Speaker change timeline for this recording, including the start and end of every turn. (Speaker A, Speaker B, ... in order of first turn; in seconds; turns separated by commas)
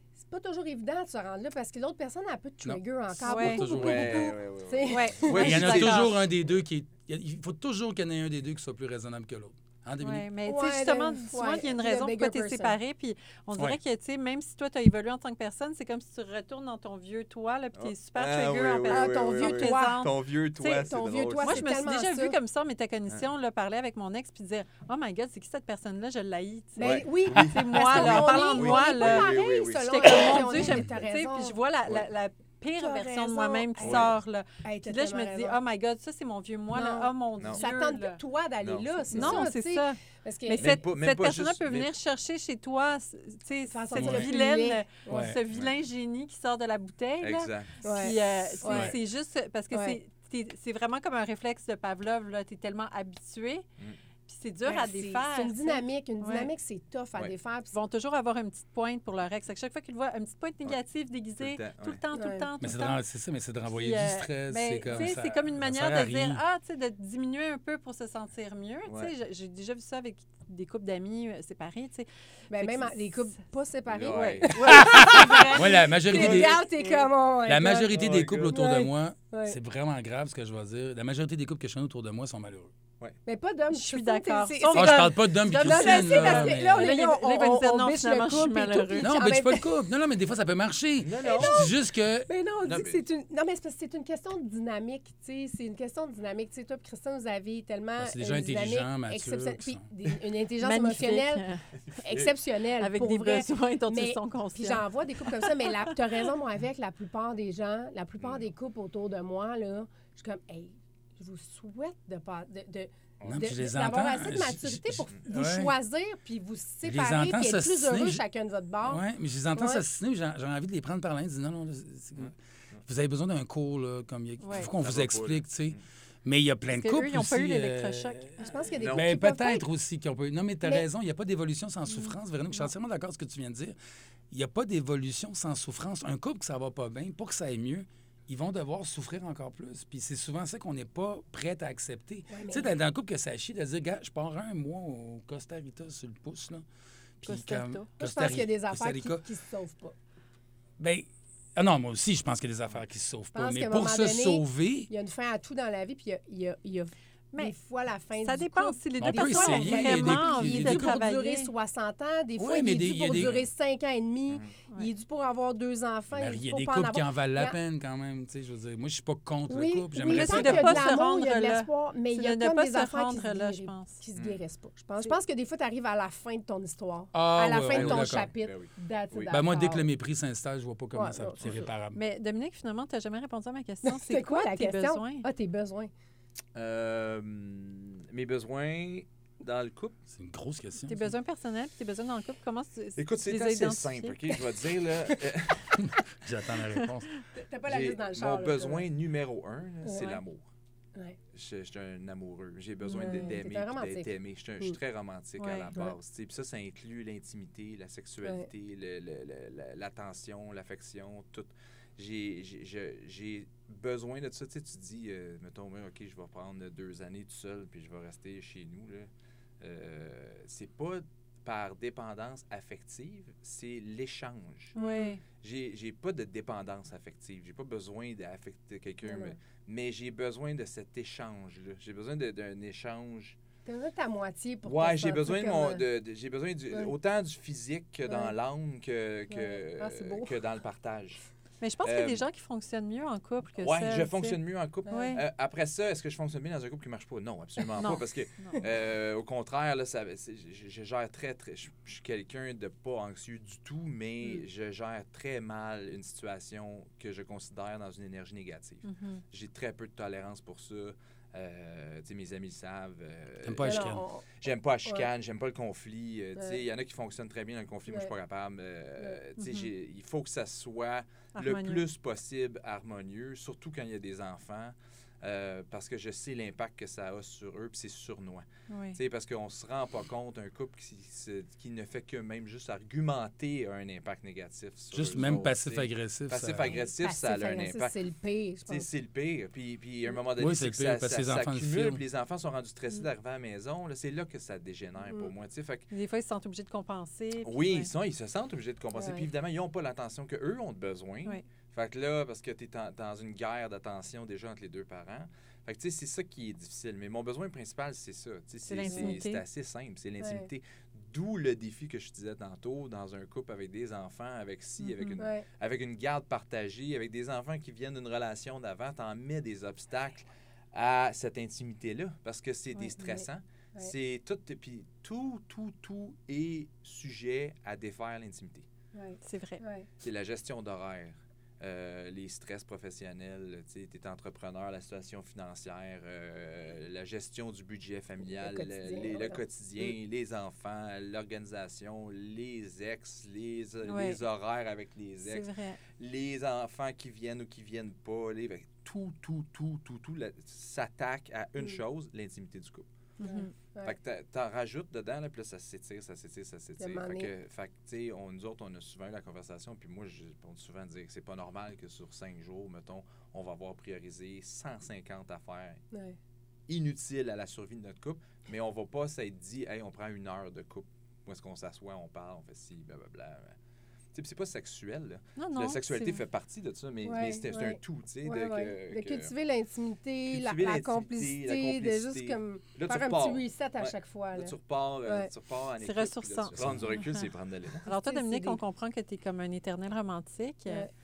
Speaker A: 0.2-5.6, Speaker B: 2.6-4.4, Speaker C: 3.2-3.7, Speaker D: 3.7-6.2, Speaker C: 4.9-6.2, Speaker B: 5.4-10.3, Speaker C: 10.0-20.1, Speaker A: 10.4-12.8, Speaker D: 17.7-21.8, Speaker A: 18.9-22.4, Speaker C: 21.4-38.2, Speaker A: 26.8-31.6, Speaker D: 26.8-30.8, Speaker A: 32.8-35.6, Speaker D: 33.8-34.1, Speaker A: 36.7-40.7, Speaker D: 38.6-39.5, Speaker C: 39.1-53.6, Speaker D: 40.6-41.9, Speaker A: 43.7-45.3, Speaker B: 44.0-44.3, Speaker B: 45.1-45.4, Speaker D: 47.2-47.7, Speaker A: 47.8-49.0, Speaker B: 48.6-48.9, Speaker A: 49.7-50.0, Speaker C: 54.3-56.5, Speaker A: 54.6-57.8, Speaker C: 57.7-63.0, Speaker D: 61.4-62.0, Speaker A: 62.1-62.5, Speaker B: 62.6-66.4, Speaker C: 63.7-73.3, Speaker D: 68.9-69.1, Speaker A: 72.5-79.6, Speaker D: 73.9-74.6, Speaker C: 74.1-77.1, Speaker B: 74.7-76.6, Speaker B: 77.5-82.7, Speaker D: 77.9-78.6, Speaker A: 83.3-89.7, Speaker C: 83.7-89.1, Speaker B: 84.7-87.0, Speaker B: 89.0-92.3, Speaker D: 91.0-91.7, Speaker A: 91.2-101.5, Speaker D: 92.6-93.0, Speaker B: 98.0-99.9, Speaker C: 100.6-101.7, Speaker A: 102.0-119.0, Speaker C: 102.8-106.2, Speaker D: 108.2-108.5, Speaker B: 113.2-115.7, Speaker B: 116.8-118.2, Speaker B: 118.8-122.3, Speaker A: 119.5-119.8, Speaker D: 122.2-122.8, Speaker B: 122.9-133.8, Speaker C: 124.4-124.7, Speaker D: 124.5-125.8, Speaker C: 126.7-128.5, Speaker A: 128.4-129.6, Speaker D: 128.8-129.1, Speaker B: 134.3-146.6, Speaker A: 142.3-142.7, Speaker B: 147.2-149.2, Speaker C: 147.2-147.9, Speaker A: 148.0-149.9, Speaker B: 150.8-154.9, Speaker A: 153.3-167.6, Speaker C: 158.2-161.5, Speaker B: 159.0-161.0, Speaker B: 162.4-163.4, Speaker D: 163.1-163.4, Speaker B: 166.1-170.9, Speaker A: 169.5-179.9, Speaker C: 170.1-174.0, Speaker B: 177.1-178.3, Speaker D: 177.7-179.3, Speaker B: 179.3-182.0, Speaker A: 180.9-181.7, Speaker C: 181.9-185.3, Speaker A: 183.8-185.9, Speaker D: 186.6-190.0, Speaker B: 190.1-191.1, Speaker C: 190.8-194.3, Speaker D: 193.0-195.9, Speaker B: 195.8-197.1, Speaker C: 196.7-197.2, Speaker A: 197.3-198.9, Speaker D: 197.7-200.4, Speaker A: 199.8-200.2, Speaker D: 201.3-219.1, Speaker C: 202.8-203.3, Speaker A: 202.9-204.8, Speaker C: 205.4-205.7, Speaker D: 219.6-224.8, Speaker A: 224.8-225.1, Speaker C: 224.8-225.2, Speaker D: 225.3-233.4, Speaker A: 229.1-229.3, Speaker A: 233.7-235.8, Speaker D: 234.6-241.2, Speaker A: 238.1-238.3, Speaker A: 239.3-240.3, Speaker C: 241.6-245.2, Speaker D: 241.8-242.2, Speaker D: 243.6-288.0, Speaker A: 244.9-245.2, Speaker C: 247.8-248.6, Speaker C: 258.8-259.2, Speaker B: 263.4-264.0, Speaker A: 263.6-265.1, Speaker C: 269.4-269.7, Speaker C: 271.3-271.8, Speaker C: 278.7-279.0, Speaker B: 284.9-286.8, Speaker A: 286.6-288.9, Speaker D: 288.6-295.9, Speaker B: 290.4-292.0, Speaker A: 295.1-295.3, Speaker C: 295.9-297.9, Speaker D: 297.4-328.7, Speaker A: 298.9-299.3, Speaker C: 308.7-309.4, Speaker A: 308.9-309.2, Speaker A: 310.2-310.5, Speaker C: 314.8-315.2, Speaker A: 315.2-315.4, Speaker A: 323.0-323.2, Speaker A: 328.9-329.9, Speaker C: 329.2-329.6, Speaker D: 330.0-352.9, Speaker A: 338.3-339.9, Speaker C: 343.9-344.2, Speaker C: 345.2-345.8, Speaker C: 353.2-353.5, Speaker A: 353.2-353.9, Speaker D: 353.8-365.8, Speaker A: 356.8-357.3, Speaker A: 365.9-366.2, Speaker D: 366.7-373.5, Speaker D: 374.1-379.3, Speaker C: 375.4-376.2, Speaker A: 377.1-384.6, Speaker D: 380.3-387.9, Speaker C: 385.8-387.3, Speaker B: 386.6-386.8, Speaker C: 387.8-390.9, Speaker A: 387.9-388.6